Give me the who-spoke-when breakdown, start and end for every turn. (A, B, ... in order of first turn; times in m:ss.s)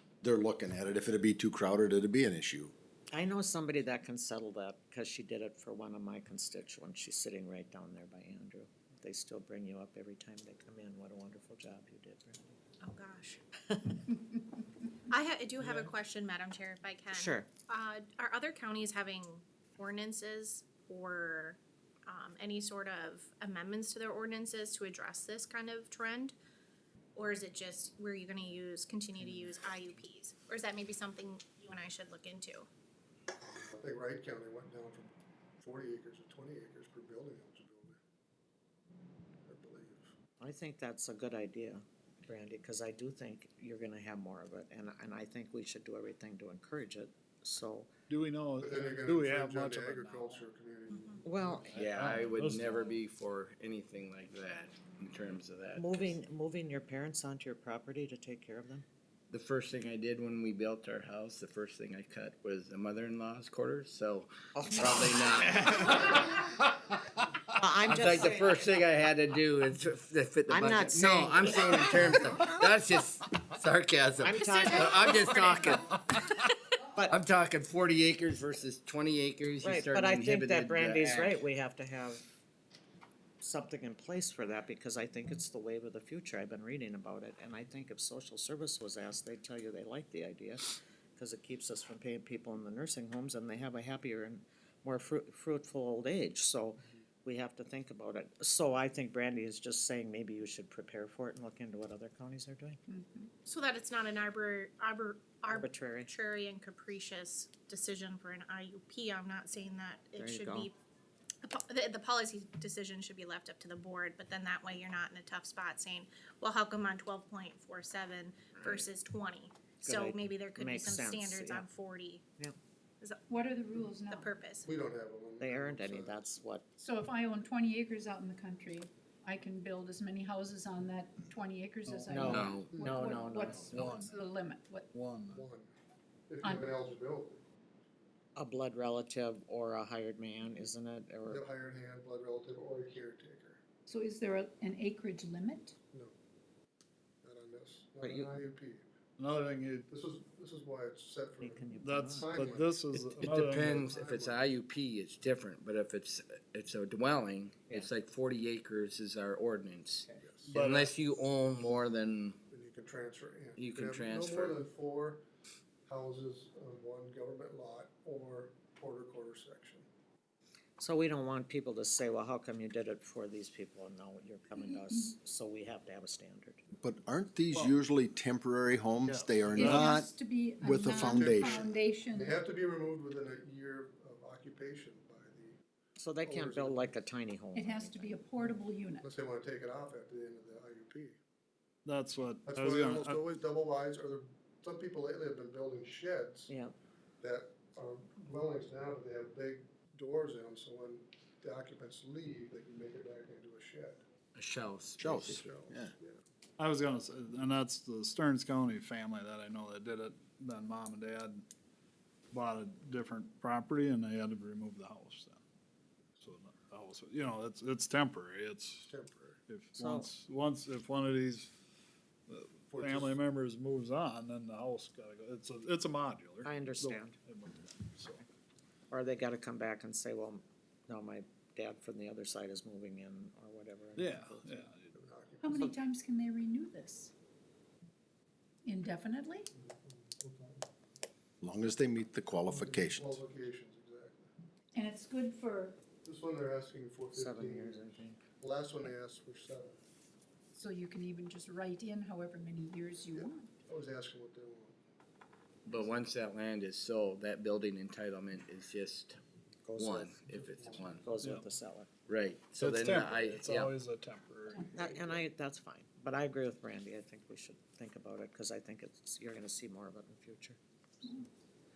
0:00.2-0:02.7 A
0:03.1-0:12.6 B
0:12.8-0:13.4 C
0:13.7-0:14.0 B
0:15.1-0:26.4 C
0:17.1-0:17.5 B
0:27.2-0:32.7 C
0:33.4-0:38.0 D
0:39.5-0:40.1 D
0:40.4-0:47.9 B
0:48.1-0:50.4 E
0:48.6-0:51.7 D
0:50.9-0:51.2 C
0:51.2-0:51.8 B
0:51.7-0:53.0 E
0:51.7-0:56.2 F
0:55.8-0:58.8 B
0:59.3-1:06.4 F
1:04.6-1:05.9 B
1:07.6-1:08.7 B
1:07.9-1:16.5 F
1:10.5-1:12.6 B
1:14.2-1:15.8 B
1:16.9-1:17.2 B
1:17.1-1:21.5 F
1:19.6-1:22.2 B
1:23.4-1:42.8 B
1:42.9-1:43.3 G
1:43.5-1:50.8 C
1:45.5-1:46.1 B
1:50.2-1:50.7 B
1:51.4-2:02.2 C
1:59.8-2:01.7 B
2:03.3-2:04.3 G
2:04.1-2:04.7 C
2:04.6-2:06.2 D
2:05.4-2:06.7 B
2:06.8-2:14.9 G
2:11.9-2:12.4 E
2:12.1-2:13.8 B
2:12.3-2:12.8 F
2:12.8-2:13.1 D
2:13.6-2:14.1 E
2:14.9-2:15.5 E
2:15.3-2:15.7 D
2:16.3-2:17.4 D
2:16.4-2:16.8 G
2:18.4-2:21.4 B
2:21.3-2:23.6 D
2:23.9-2:25.8 G
2:27.2-2:28.9 D
2:28.0-2:28.3 B
2:29.2-2:29.9 E
2:29.9-2:32.8 D
2:31.4-2:32.3 B
2:31.8-2:33.9 E
2:33.0-2:42.4 F
2:33.6-2:34.5 D
2:40.2-2:40.5 D
2:40.5-2:40.9 E
2:42.5-2:45.2 D
2:43.6-2:44.6 F
2:45.9-2:49.9 D
2:50.8-2:56.6 B
2:54.6-2:55.1 G
2:56.8-3:01.7 A
2:59.1-3:00.0 E
2:59.5-3:02.4 G
3:01.1-3:05.6 D
3:06.0-3:08.2 B
3:06.2-3:07.0 D
3:07.6-3:09.1 G
3:08.4-3:11.2 D
3:11.8-3:13.2 E
3:12.5-3:16.5 D
3:16.5-3:16.8 B
3:17.2-3:24.0 D
3:24.4-3:25.5 F
3:25.0-3:25.9 A
3:25.1-3:26.2 D
3:26.6-3:31.4 E
3:32.3-3:35.4 E
3:36.2-3:38.9 E
3:38.9-3:39.4 D
3:39.5-3:41.5 E
3:39.8-3:40.1 B
3:42.3-3:48.2 E
3:42.7-3:43.2 D
3:46.4-3:47.2 B
3:48.9-3:54.7 B
3:54.0-3:54.9 E
3:54.9-3:55.7 D
3:55.4-3:57.1 G
3:58.6-3:59.5 G
3:59.5-4:00.7 D
4:01.4-4:03.2 A
4:02.5-4:04.3 D
4:04.8-4:05.8 G
4:06.0-4:09.8 D
4:07.1-4:08.2 B
4:10.5-4:13.5 G
4:13.1-4:14.8 D
4:15.6-4:19.2 F
4:19.6-4:20.1 B
4:19.8-4:21.1 F
4:20.3-4:21.0 D
4:21.0-4:21.9 B
4:22.1-4:23.8 F
4:22.6-4:24.7 E
4:24.7-4:30.6 B
4:24.8-4:25.2 D